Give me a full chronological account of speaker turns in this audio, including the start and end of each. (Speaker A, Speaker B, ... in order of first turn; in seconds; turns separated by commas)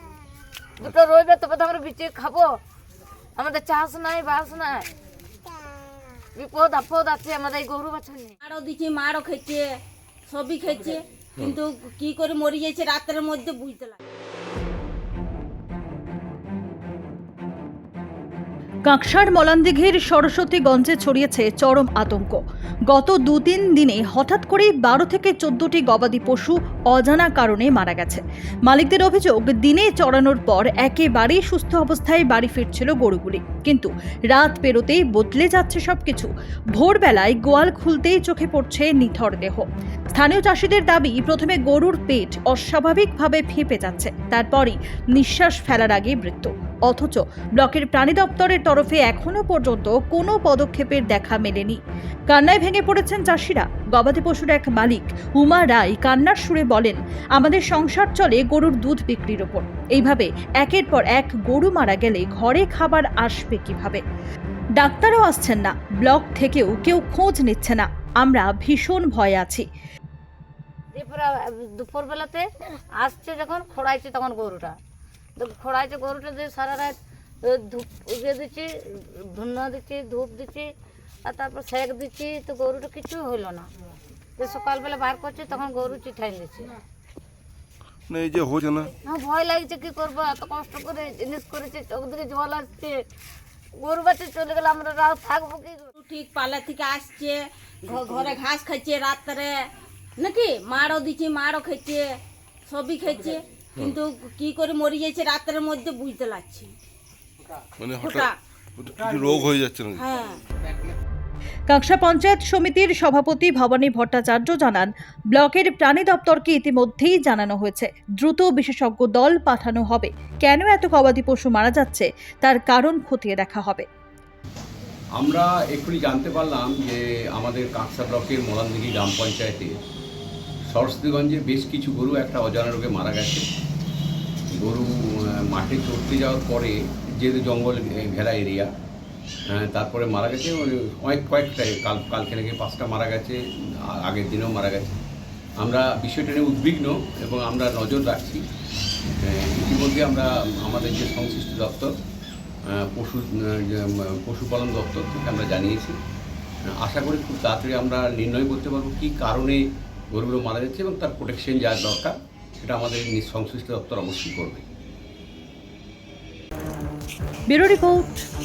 Speaker A: 0.8-2.5, Speaker A: 3.4-4.9, Speaker A: 6.4-8.3, Speaker B: 8.4-9.7, Speaker B: 10.3-14.0, Speaker C: 18.9-51.8, Speaker C: 52.3-64.0, Speaker C: 64.8-69.7, Speaker A: 70.9-74.8, Speaker A: 75.4-80.7, Speaker A: 81.2-83.7, Speaker A: 84.4-86.7, Speaker D: 88.1-88.9, Speaker A: 89.0-92.9, Speaker A: 93.8-95.9, Speaker B: 96.0-99.7, Speaker A: 97.9-98.3, Speaker B: 100.2-102.0, Speaker B: 102.7-106.7, Speaker D: 107.8-110.0, Speaker B: 108.0-108.3, Speaker B: 110.0-110.4, Speaker C: 111.7-123.9, Speaker E: 125.2-129.8, Speaker E: 130.7-133.4, Speaker E: 134.5-138.7, Speaker E: 139.5-143.4, Speaker E: 144.0-145.0, Speaker E: 145.6-148.4, Speaker E: 149.2-151.9, Speaker E: 152.7-156.0, Speaker E: 156.7-164.7, Speaker C: 167.5-168.2